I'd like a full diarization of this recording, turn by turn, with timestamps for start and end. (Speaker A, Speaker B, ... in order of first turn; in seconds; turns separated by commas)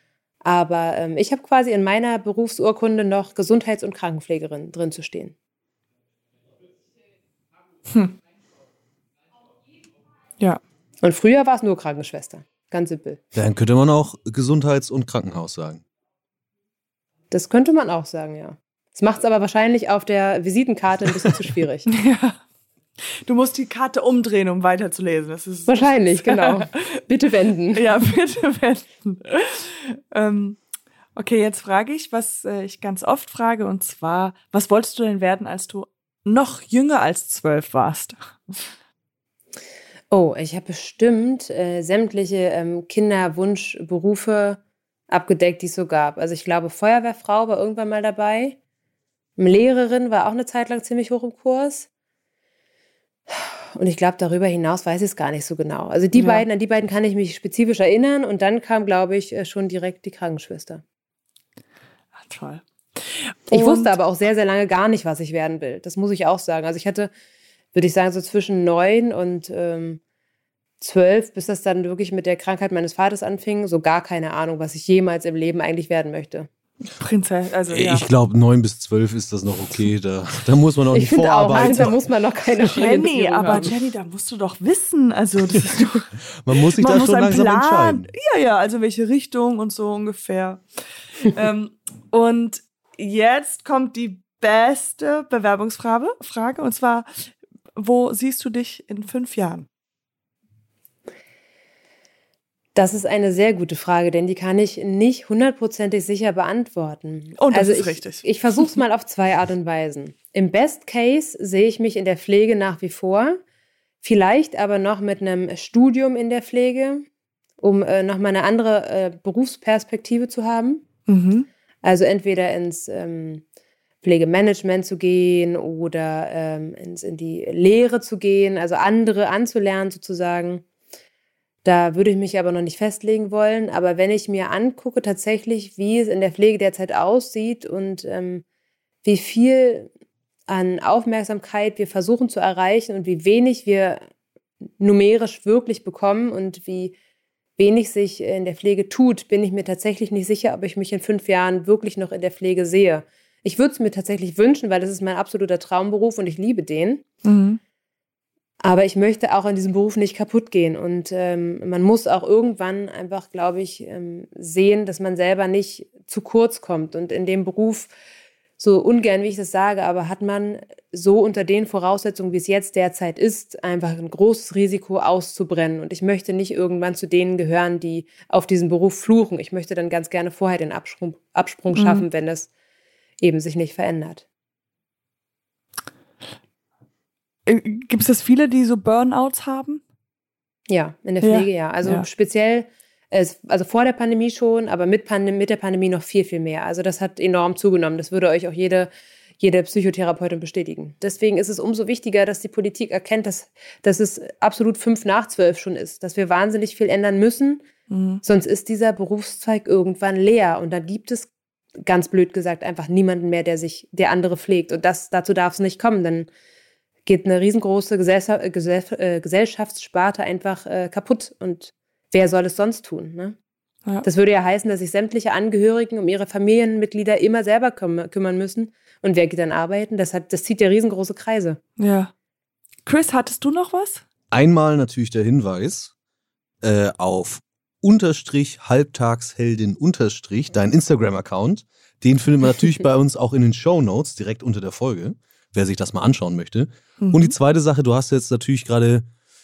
Speaker A: 0.4-5.3, Speaker A: 11.0-13.2, Speaker B: 13.3-15.8, Speaker A: 17.3-21.9, Speaker C: 21.9-22.4, Speaker C: 23.1-27.0, Speaker A: 25.7-27.9, Speaker C: 27.7-30.6, Speaker C: 31.2-38.7, Speaker A: 40.1-48.6, Speaker A: 49.4-51.9, Speaker A: 53.3-60.8, Speaker C: 56.1-56.5, Speaker C: 62.2-63.9, Speaker A: 63.5-67.1, Speaker A: 67.7-70.0, Speaker A: 70.8-76.5, Speaker C: 77.0-78.0, Speaker B: 77.7-81.9, Speaker A: 80.9-83.7, Speaker C: 81.5-82.0, Speaker C: 82.6-86.1, Speaker B: 86.3-88.1, Speaker C: 86.8-90.6, Speaker C: 91.2-97.2, Speaker C: 97.7-99.7, Speaker A: 102.7-113.4, Speaker C: 107.4-108.7, Speaker A: 114.0-117.0, Speaker A: 117.6-120.8, Speaker C: 121.1-121.5, Speaker A: 121.8-123.4, Speaker A: 124.0-130.6, Speaker A: 131.6-138.4, Speaker A: 139.0-139.9, Speaker A: 140.5-144.0, Speaker A: 144.8-146.9, Speaker A: 147.6-157.1, Speaker C: 157.2-157.6, Speaker A: 158.6-167.9, Speaker A: 168.6-182.5, Speaker C: 181.7-182.1, Speaker A: 183.2-184.2, Speaker C: 187.4-189.8, Speaker A: 190.7-198.9, Speaker C: 191.2-192.1, Speaker A: 199.4-207.6, Speaker C: 207.9-208.2, Speaker A: 208.2-211.3, Speaker A: 211.8-216.3, Speaker A: 217.1-223.4, Speaker A: 224.0-231.6, Speaker C: 231.8-232.1, Speaker C: 232.8-234.0, Speaker B: 234.3-235.9, Speaker B: 236.6-249.1, Speaker C: 247.0-247.3